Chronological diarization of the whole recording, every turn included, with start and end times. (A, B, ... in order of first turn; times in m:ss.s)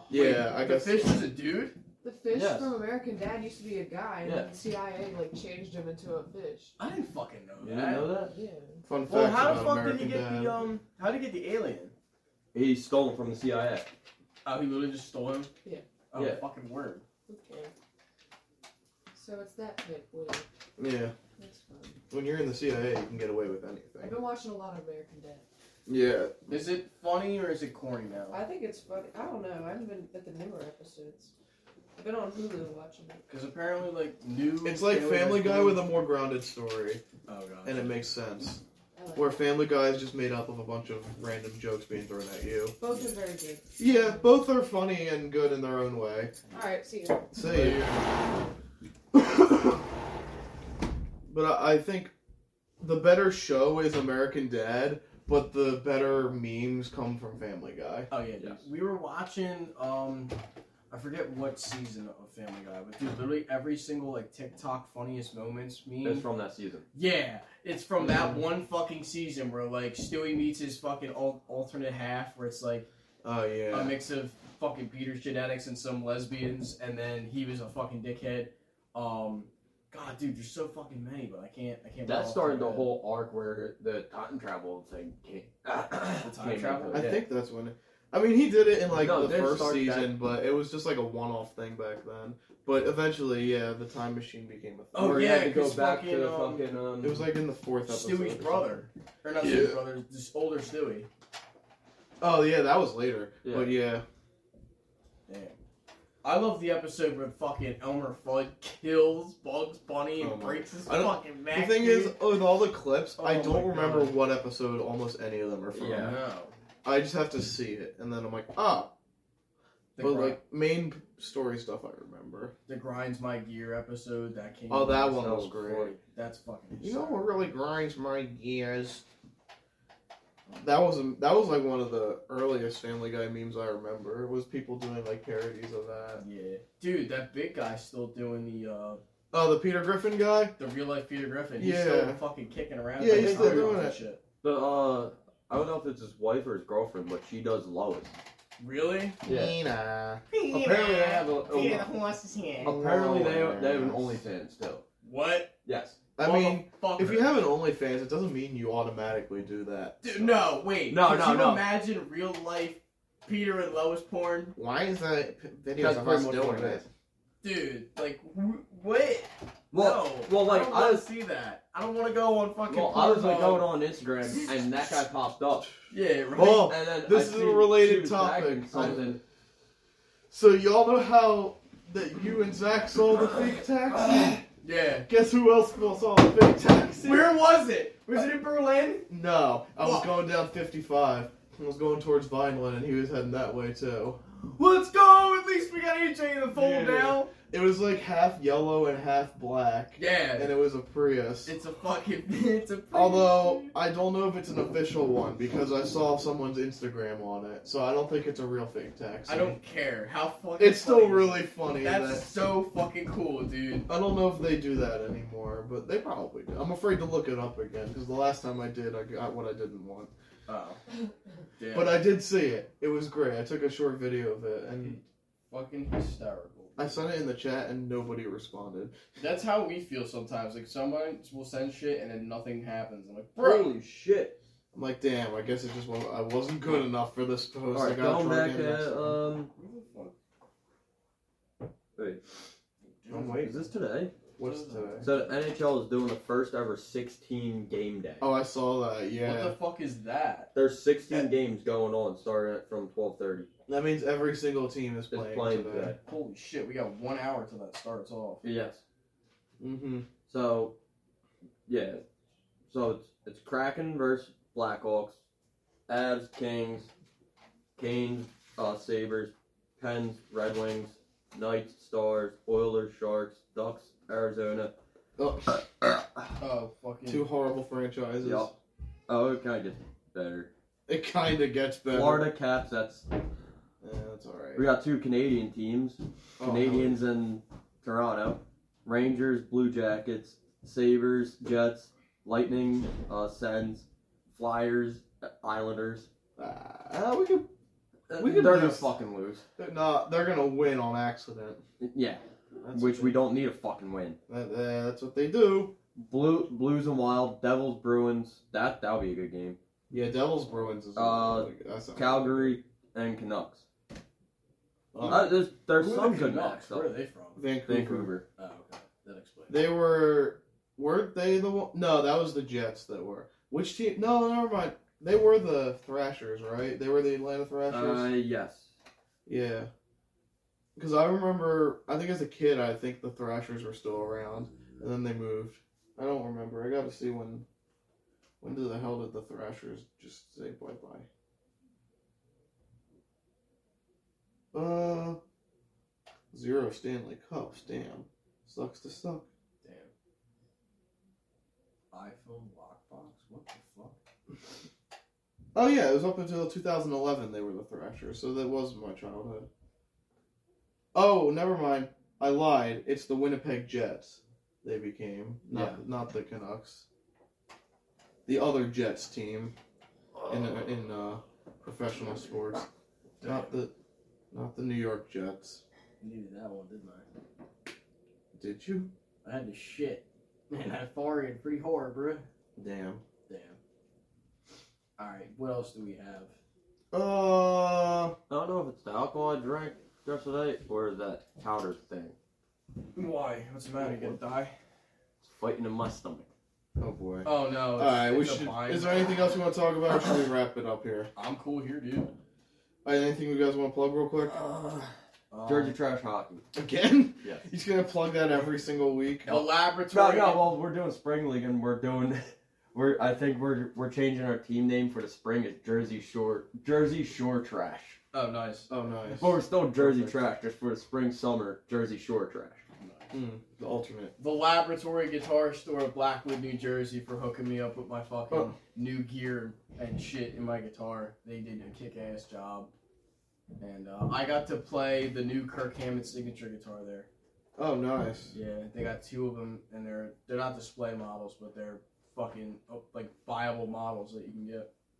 0:00.1-0:01.2 A
0:00.1-0:01.7 B
0:02.0-0:06.8 C
0:02.3-0:02.7 D
0:04.2-0:04.5 D
0:06.8-0:08.1 B
0:07.6-0:08.3 D
0:08.2-0:08.8 C
0:08.8-0:10.6 A
0:09.1-0:11.9 B
0:12.5-0:13.9 D
0:14.4-0:15.5 B
0:16.1-0:17.0 B
0:16.1-0:16.4 D
0:17.3-0:17.7 C
0:19.1-0:20.4 C
0:20.8-0:21.1 A
0:21.4-0:22.0 C
0:22.1-0:24.2 A
0:24.0-0:25.4 C
0:25.9-0:26.5 A
0:26.5-0:28.4 B
0:28.3-0:31.3 C
0:31.9-0:33.2 C
0:33.3-0:35.8 B
0:34.6-0:37.0 A
0:37.3-0:38.0 B
0:37.6-0:38.6 A
0:38.9-0:39.3 C
0:39.2-0:42.8 A
0:42.8-0:44.3 C
0:43.8-0:46.3 A
0:46.5-0:47.3 C
0:47.3-0:47.9 A
0:47.4-0:48.2 B
0:49.1-0:49.8 A
0:51.3-0:52.1 A
0:52.8-0:58.1 A
0:58.1-1:00.3 B
1:00.9-1:06.2 B
1:06.0-1:06.8 D
1:06.9-1:12.9 B
1:08.0-1:08.4 A
1:13.2-1:13.9 A
1:13.7-1:22.9 B
1:22.0-1:27.1 D
1:26.2-1:27.2 B
1:26.9-1:35.5 A
1:28.9-1:30.1 D
1:34.9-1:36.6 B
1:35.0-1:37.3 D
1:37.0-1:38.8 A
1:37.8-1:41.1 B
1:39.4-1:39.8 A
1:42.2-1:44.0 A
1:43.4-1:43.7 D
1:45.3-1:45.6 B
1:46.2-1:52.1 B
1:50.2-1:56.2 A
1:53.2-1:54.2 B
1:55.7-1:56.2 D
1:55.9-1:56.5 B
1:56.8-1:58.9 A
2:00.0-2:00.4 B
2:00.0-2:02.5 A
2:02.7-2:07.3 B
2:04.7-2:05.9 A
2:05.1-2:05.9 D
2:06.8-2:09.0 A
2:10.5-2:10.8 B
2:10.6-2:16.2 A
2:16.2-2:19.0 B
2:19.3-2:20.5 A
2:20.6-2:24.2 B
2:21.6-2:22.2 A
2:23.0-2:24.0 A
2:23.1-2:23.8 D
2:24.4-2:28.1 D
2:28.6-2:29.2 B
2:29.2-2:30.2 A
2:29.2-2:29.6 D
2:30.3-2:32.8 B
2:30.5-2:31.9 D
2:32.6-2:34.8 D
2:32.6-2:34.2 A
2:35.0-2:35.5 B
2:35.6-2:36.0 D
2:36.2-2:40.5 A
2:36.2-2:37.3 B
2:40.0-2:44.5 B
2:40.9-2:41.6 D
2:44.5-2:46.9 A
2:45.8-2:46.8 D
2:47.4-2:53.7 B
2:49.7-2:51.1 D
2:52.7-2:55.7 D
2:55.9-2:56.7 B
2:56.3-2:59.2 A
2:56.4-2:59.2 D
3:00.3-3:04.4 A
3:04.6-3:05.1 B
3:05.1-3:07.3 A
3:07.0-3:09.1 B
3:09.1-3:14.2 A
3:09.8-3:10.1 B
3:14.4-3:17.3 B
3:16.5-3:21.5 A
3:20.0-3:20.5 B
3:21.4-3:23.7 B
3:22.9-3:29.6 A
3:29.3-3:33.9 B
3:30.6-3:32.2 A
3:33.9-3:40.1 A
3:40.5-3:40.8 B
3:41.6-3:42.0 B
3:41.7-3:45.0 A
3:45.5-3:47.1 B
3:46.8-3:49.0 A
3:49.2-3:53.8 B
3:53.4-3:54.4 D
3:54.7-3:59.2 A
3:57.7-3:59.5 D
3:59.5-4:00.1 B
4:02.0-4:02.2 D
4:03.0-4:03.6 B
4:03.1-4:04.1 D
4:03.1-4:03.5 A
4:04.4-4:05.2 A
4:04.4-4:05.2 B
4:05.0-4:08.3 D
4:08.2-4:09.6 A
4:09.2-4:10.5 B
4:10.5-4:13.5 D
4:13.7-4:15.9 A
4:15.1-4:16.0 D
4:16.0-4:18.4 B
4:18.4-4:18.8 D
4:19.6-4:20.1 A
4:20.3-4:20.7 D
4:21.7-4:22.0 D
4:22.7-4:25.2 D
4:25.9-4:26.9 D
4:27.8-4:34.7 D
4:35.2-4:35.6 A
4:36.4-4:37.3 B
4:37.1-4:38.5 A
4:38.2-4:38.5 D
4:39.1-4:40.5 D
4:40.9-4:42.3 A
4:41.9-4:43.0 D
4:43.8-4:44.7 A
4:44.6-4:56.1 D
4:46.4-4:46.9 B
4:46.4-4:46.8 A
4:56.4-4:57.5 A
4:58.1-4:59.4 D
4:58.1-4:58.9 A
4:59.6-5:01.6 A
5:01.8-5:04.2 D
5:02.6-5:03.2 A
5:04.3-5:05.7 A
5:06.0-5:09.6 D
5:09.9-5:12.6 A
5:10.9-5:13.6 D
5:14.9-5:15.3 A
5:15.0-5:17.4 B
5:15.0-5:16.9 D
5:17.4-5:18.1 A
5:17.7-5:18.2 D
5:18.4-5:19.6 B
5:19.5-5:28.1 A
5:27.7-5:28.7 D
5:29.2-5:29.7 A
5:30.8-5:37.4 A
5:38.4-5:41.1 A
5:44.5-5:45.2 A
5:46.3-5:49.2 A
5:49.6-5:49.9 B
5:51.9-5:54.0 B
5:55.5-5:59.5 A
6:00.9-6:06.8 A
6:05.5-6:05.8 D
6:08.2-6:09.5 A
6:10.3-6:12.7 A
6:13.2-6:13.5 B
6:13.2-6:13.7 A
6:14.3-6:15.6 A
6:16.0-6:17.1 B
6:18.3-6:18.9 A
6:19.2-6:22.2 B
6:22.6-6:23.0 A
6:23.3-6:23.6 B
6:25.0-6:26.3 B
6:26.9-6:28.2 A
6:28.3-6:32.1 D
6:32.9-6:34.5 B
6:35.2-6:36.3 D
6:36.8-6:41.1 A
6:37.2-6:39.2 B
6:41.1-6:42.1 B
6:42.8-6:44.4 A
6:44.3-6:44.9 D
6:45.3-6:45.8 B
6:45.4-6:46.4 D
6:46.5-6:49.4 A
6:49.2-6:50.4 B
6:49.9-6:58.0 D
6:58.1-6:58.7 B
6:58.7-7:00.2 A
6:59.2-7:02.6 D
7:02.8-7:03.1 B
7:03.1-7:04.1 A
7:04.2-7:12.7 B
7:13.6-7:17.1 B
7:17.6-7:18.3 A
7:18.3-7:24.7 B